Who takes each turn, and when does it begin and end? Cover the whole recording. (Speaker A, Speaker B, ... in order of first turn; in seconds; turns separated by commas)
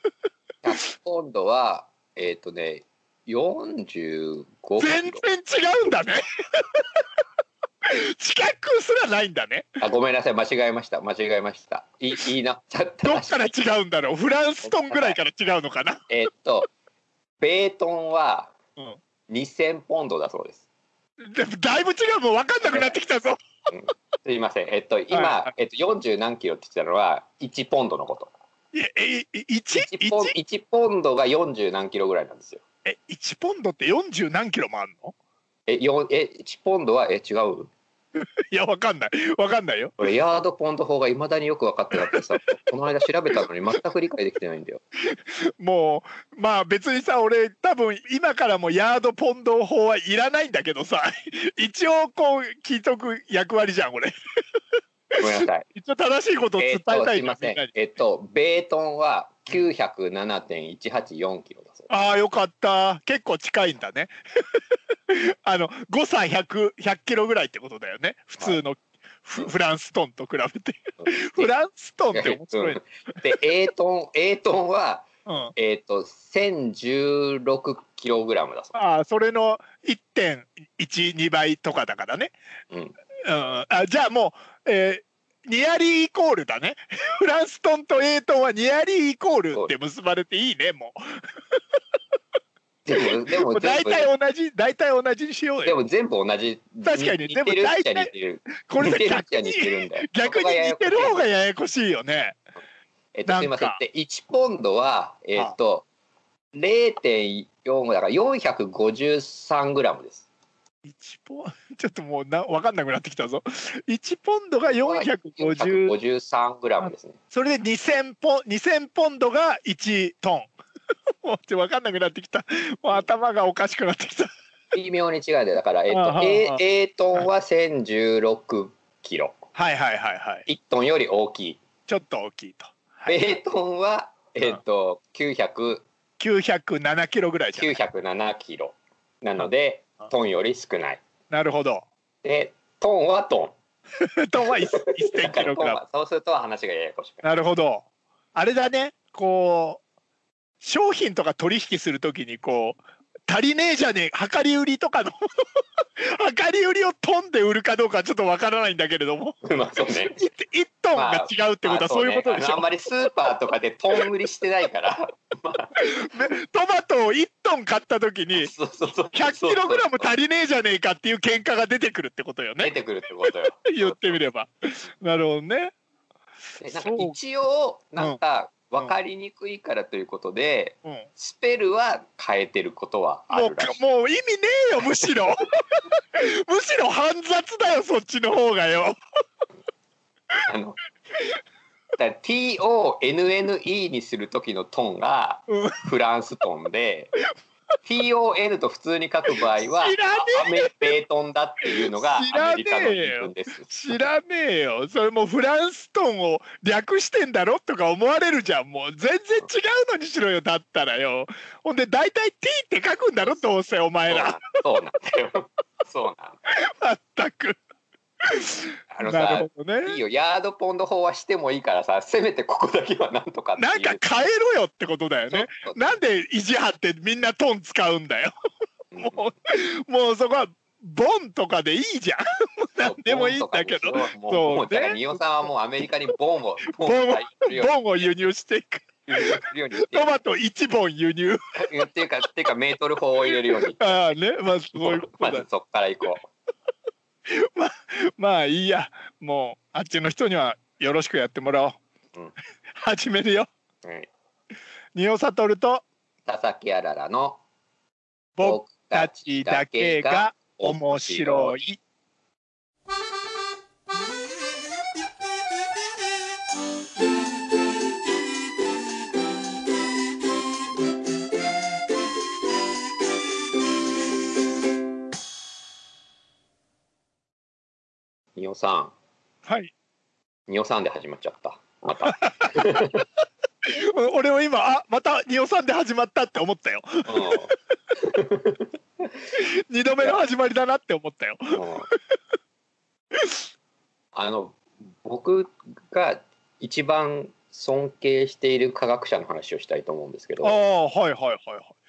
Speaker A: 0.6-5.2, Speaker B: 4.8-6.7, Speaker B: 7.8-9.7, Speaker A: 9.8-13.6, Speaker B: 13.0-16.0, Speaker A: 14.6-15.2, Speaker A: 16.1-16.7, Speaker A: 17.4-18.5, Speaker A: 19.3-20.6, Speaker B: 21.3-23.4, Speaker A: 22.7-23.0, Speaker A: 23.7-28.3, Speaker B: 25.1-25.5, Speaker B: 28.7-30.4, Speaker A: 29.7-32.6, Speaker B: 32.9-35.1, Speaker A: 35.7-37.7, Speaker B: 38.2-39.9, Speaker A: 40.0-44.8, Speaker B: 45.1-54.1, Speaker B: 55.1-57.7, Speaker A: 55.2-55.7, Speaker A: 56.6-61.9, Speaker B: 61.9-64.1, Speaker B: 65.1-73.2, Speaker A: 71.0-71.5, Speaker A: 72.1-78.8, Speaker B: 75.3-75.5, Speaker B: 78.8-82.3, Speaker A: 82.7-83.0, Speaker B: 83.3-91.0, Speaker A: 92.8-94.1, Speaker B: 93.0-95.8, Speaker A: 95.6-101.2, Speaker B: 96.8-102.4, Speaker A: 103.2-105.9, Speaker B: 103.3-103.8, Speaker A: 106.5-110.2, Speaker B: 110.8-115.9, Speaker A: 114.7-117.2, Speaker B: 116.8-120.5, Speaker B: 121.2-124.3, Speaker A: 124.7-129.4, Speaker B: 125.9-126.6, Speaker B: 129.6-130.5, Speaker A: 130.5-131.6, Speaker B: 131.9-133.2, Speaker A: 133.1-135.8, Speaker B: 136.2-137.8, Speaker A: 137.6-141.0, Speaker B: 141.3-141.9, Speaker A: 142.2-143.6, Speaker B: 144.0-145.8, Speaker A: 144.7-147.3, Speaker B: 147.2-149.8, Speaker B: 150.6-155.2, Speaker B: 156.1-159.4, Speaker A: 159.5-160.2, Speaker B: 160.2-162.7, Speaker A: 160.9-165.7, Speaker B: 165.8-168.5, Speaker A: 168.3-170.1, Speaker B: 169.1-172.7, Speaker A: 172.6-174.2, Speaker B: 173.7-175.7, Speaker A: 176.6-183.8, Speaker B: 176.8-177.2, Speaker B: 183.3-185.4, Speaker B: 186.2-189.0, Speaker A: 190.5-190.8, Speaker A: 192.0-197.1, Speaker B: 195.5-195.8, Speaker A: 197.8-204.1, Speaker B: 199.8-200.9, Speaker B: 201.8-214.4, Speaker A: 213.2-213.5, Speaker A: 214.1-216.5, Speaker B: 216.5-217.6, Speaker B: 218.3-220.0, Speaker A: 218.9-224.1, Speaker B: 223.6-228.3, Speaker A: 225.3-226.0, Speaker A: 228.9-229.2, Speaker B: 229.0-235.2, Speaker A: 232.8-238.1, Speaker B: 236.8-241.4, Speaker A: 239.1-240.2, Speaker A: 241.6-244.0, Speaker B: 243.8-245.5, Speaker A: 244.8-246.3, Speaker B: 247.3-251.8, Speaker B: 252.7-253.5, Speaker A: 253.8-254.1, Speaker B: 254.9-255.8, Speaker A: 256.3-257.4, Speaker B: 258.4-261.8, Speaker A: 258.4-261.6, Speaker A: 278.4-278.9, Speaker B: 279.5-279.7, Speaker A: 280.5-283.1, Speaker B: 282.1-282.6, Speaker B: 283.6-287.5, Speaker A: 287.1-288.7, Speaker B: 289.3-292.0, Speaker A: 291.6-291.9, Speaker A: 294.1-300.6, Speaker B: 300.4-301.7